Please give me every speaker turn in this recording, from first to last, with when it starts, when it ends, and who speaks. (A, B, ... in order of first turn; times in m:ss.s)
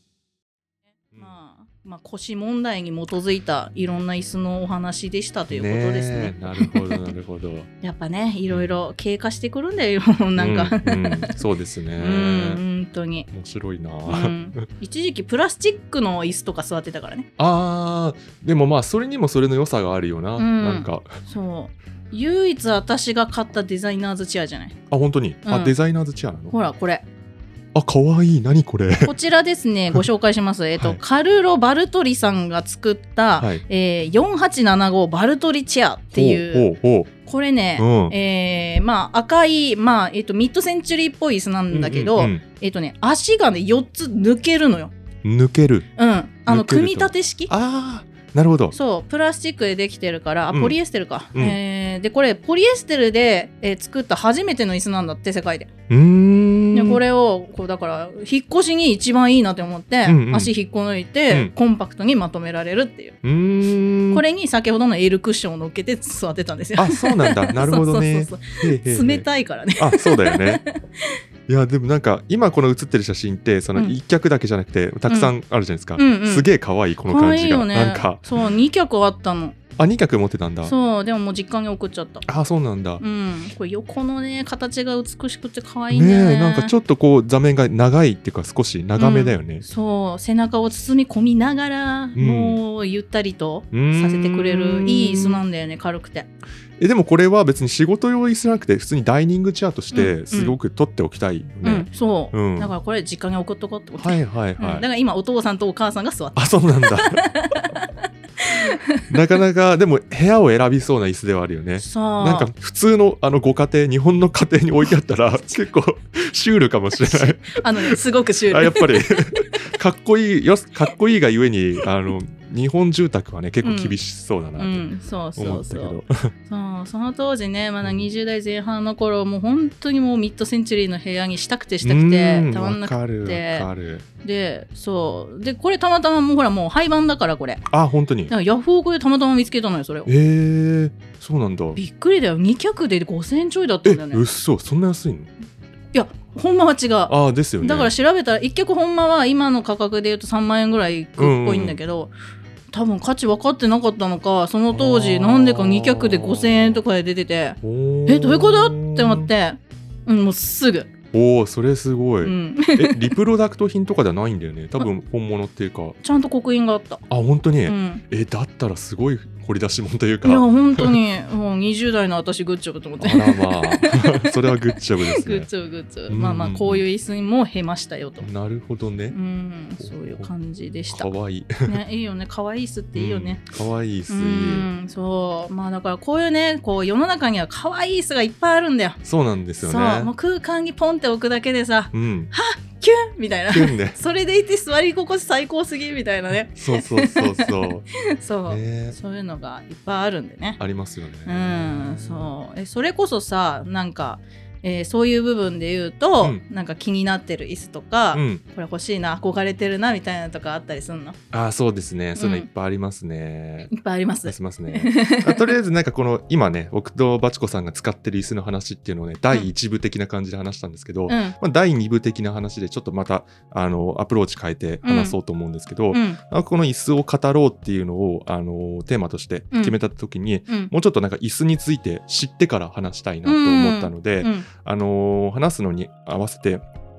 0:01.1-0:07.1 A
0:05.5-0:07.7 B
0:07.8-0:11.4 A
0:08.5-0:08.7 B
0:10.4-0:12.6 B
0:12.0-0:13.3 A
0:13.3-0:14.7 B
0:14.0-0:17.3 A
0:17.4-0:21.2 B
0:20.4-0:24.8 A
0:24.9-0:26.5 B
0:25.4-0:25.7 A
0:26.5-0:27.0 A
0:27.7-0:29.1 B
0:29.0-0:36.7 A
0:33.4-0:33.6 B
0:36.1-0:37.1 B
0:37.2-0:44.9 A
0:37.8-0:38.2 B
0:41.7-0:42.4 B
0:45.2-0:45.8 B
0:46.0-0:47.5 A
0:46.5-0:48.7 B
0:48.7-0:55.7 A
0:50.5-0:50.8 B
0:55.9-0:57.0 B
0:56.7-1:03.2 A
1:00.0-1:00.5 B
1:03.2-1:04.2 B
1:04.1-1:11.2 A
1:06.8-1:09.2 B
1:09.8-1:10.6 B
1:11.5-1:18.4 B
1:15.1-1:15.3 A
1:16.0-1:16.5 A
1:17.0-1:19.6 A
1:19.8-1:20.7 B
1:20.6-1:22.2 A
1:22.2-1:23.0 B
1:23.0-1:26.7 A
1:25.9-1:29.6 B
1:29.0-1:36.3 A
1:32.1-1:32.6 B
1:33.7-1:35.4 B
1:36.8-1:42.7 B
1:39.9-1:40.6 A
1:41.6-1:49.1 A
1:44.0-1:44.8 B
1:46.3-1:47.2 B
1:49.1-2:06.3 B
1:51.8-1:52.5 A
1:57.0-1:59.5 A
2:03.6-2:04.0 A
2:04.6-2:13.7 A
2:07.8-2:08.1 B
2:11.8-2:14.0 B
2:14.2-2:17.6 A
2:17.7-2:18.3 B
2:18.3-2:20.1 A
2:20.0-2:21.8 B
2:21.8-2:24.2 A
2:23.8-2:25.3 B
2:25.9-2:32.1 A
2:27.1-2:27.9 B
2:31.2-2:31.8 B
2:32.7-2:40.9 A
2:34.7-2:36.8 B
2:37.6-2:39.3 B
2:41.1-2:46.0 B
2:42.2-2:43.1 A
2:46.0-2:47.0 A
2:47.1-2:51.0 B
2:47.6-2:48.0 A
2:50.2-2:58.3 A
2:53.0-2:55.5 B
2:56.1-2:56.8 B
2:58.2-2:59.2 B
2:59.1-3:01.1 A
2:59.8-3:00.3 B
3:00.9-3:01.8 B
3:01.6-3:03.4 A
3:02.9-3:04.7 B
3:04.1-3:09.0 A
3:09.0-3:10.1 B
3:09.6-3:20.6 A
3:11.9-3:12.3 B
3:13.5-3:14.0 B
3:16.6-3:17.9 B
3:18.5-3:19.0 B
3:20.6-3:22.3 B
3:21.2-3:31.2 A
3:28.1-3:28.4 B
3:31.3-3:33.7 B
3:32.2-3:32.5 A
3:33.7-3:35.5 A
3:34.2-3:56.6 B
3:41.1-3:41.4 A
3:44.8-3:45.2 A
3:45.9-3:46.2 A
3:53.2-3:54.4 A